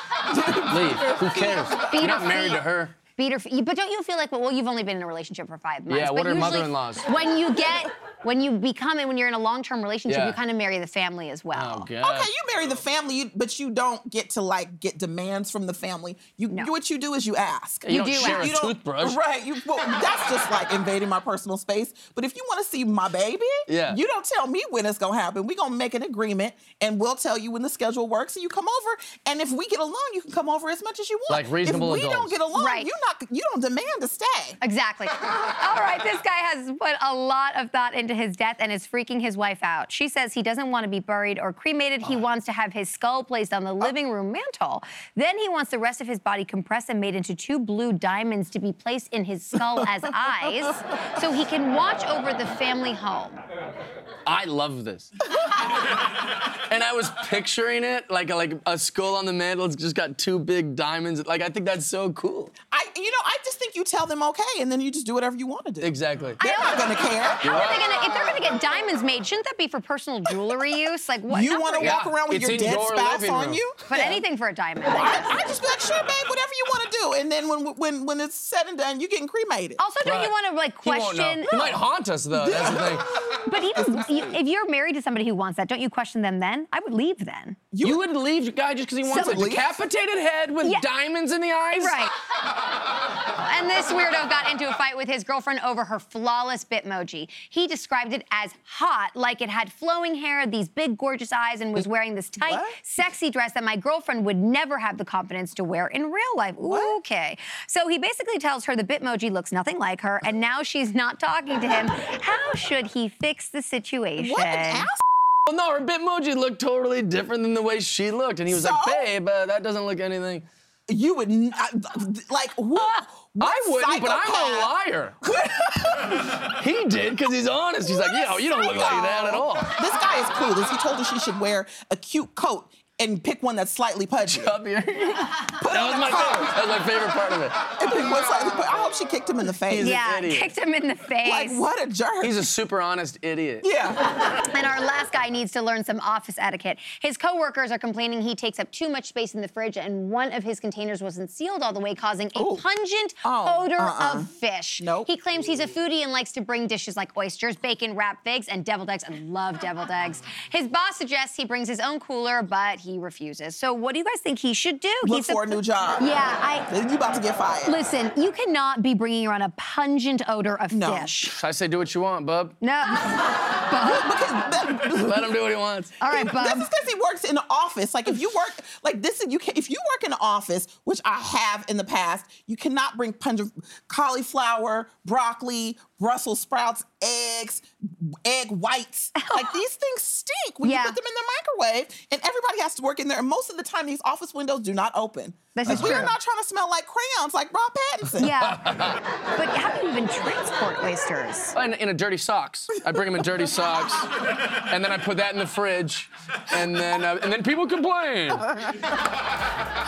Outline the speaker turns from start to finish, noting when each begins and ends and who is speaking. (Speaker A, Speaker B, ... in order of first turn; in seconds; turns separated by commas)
Speaker A: 0.3-1.7, Speaker B: 0.6-3.0, Speaker C: 1.9-2.6, Speaker C: 3.1-11.9, Speaker B: 5.9-7.0, Speaker B: 10.1-10.4, Speaker B: 11.5-12.3, Speaker A: 12.0-34.6, Speaker B: 17.9-19.2, Speaker C: 17.9-18.5, Speaker B: 23.7-24.0, Speaker B: 31.3-32.4, Speaker C: 32.5-32.9, Speaker C: 34.6-53.4, Speaker B: 54.2-55.1, Speaker B: 56.7-62.5, Speaker A: 62.7-67.8, Speaker B: 65.8-66.4, Speaker C: 66.4-72.0, Speaker B: 67.4-67.9, Speaker A: 71.3-74.2, Speaker B: 71.8-73.6, Speaker C: 73.9-75.3, Speaker A: 74.8-79.8, Speaker C: 79.8-81.7, Speaker B: 80.0-83.2, Speaker A: 82.3-84.3, Speaker C: 83.3-87.6, Speaker A: 87.7-88.0, Speaker B: 87.8-92.0, Speaker A: 89.1-89.7, Speaker C: 91.8-92.1, Speaker C: 93.3-114.9, Speaker A: 102.4-102.8, Speaker A: 106.6-107.0, Speaker A: 114.2-115.0, Speaker B: 115.5-120.5, Speaker A: 118.5-119.1, Speaker A: 120.9-126.4, Speaker B: 122.8-125.2, Speaker B: 126.3-129.8, Speaker A: 127.8-134.5, Speaker B: 134.3-137.6, Speaker A: 135.6-136.6, Speaker A: 137.7-139.9, Speaker B: 139.7-140.5, Speaker C: 139.8-141.6, Speaker A: 141.2-142.4, Speaker B: 142.2-143.7, Speaker A: 143.6-144.1, Speaker C: 144.4-166.7, Speaker A: 152.3-152.6, Speaker A: 153.2-155.1, Speaker A: 165.0-166.1, Speaker A: 166.7-167.7, Speaker C: 167.7-171.3, Speaker A: 170.7-171.3, Speaker B: 171.3-172.6, Speaker C: 172.6-174.1, Speaker A: 173.1-175.3, Speaker B: 174.9-175.9, Speaker C: 176.0-176.7, Speaker A: 176.1-198.3, Speaker C: 189.2-189.6, Speaker C: 190.6-191.0, Speaker C: 195.5-196.1, Speaker B: 195.7-196.0, Speaker C: 198.2-198.6, Speaker B: 198.4-199.0, Speaker C: 199.3-201.5, Speaker B: 201.5-208.5, Speaker A: 208.5-208.9